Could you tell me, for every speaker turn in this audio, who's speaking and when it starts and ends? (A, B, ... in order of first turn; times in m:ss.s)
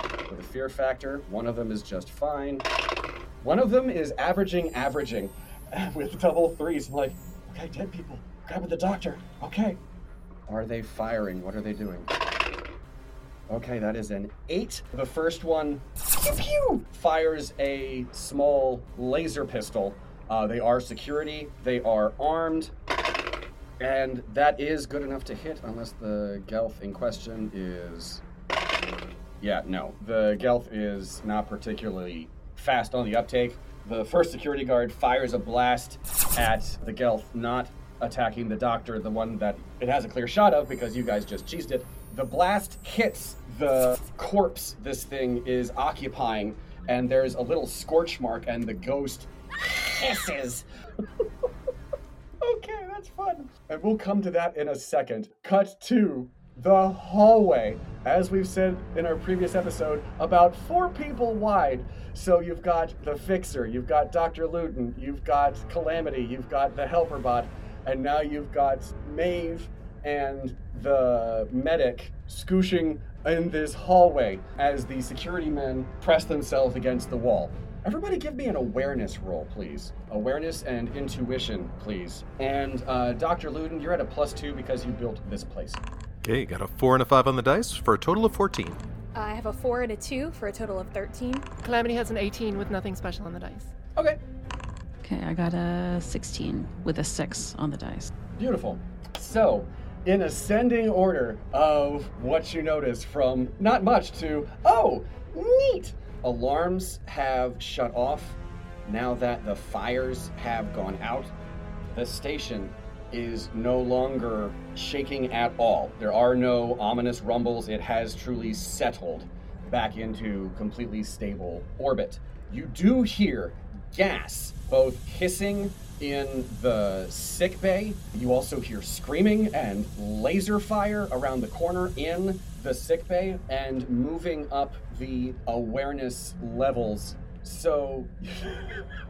0:00.3-0:02.7 A
0:03.4-0:09.8 A
0:10.5-0:12.1 A
0:13.5-0:22.7 A
0:23.8-0:28.2 A
0:29.4-0:50.6 A
0:52.4-1:25.9 A
1:26.2-1:28.8 B
1:29.2-1:31.5 C
1:31.6-1:33.7 D
1:35.0-1:38.1 E
1:38.4-1:51.3 A
1:51.9-2:18.8 A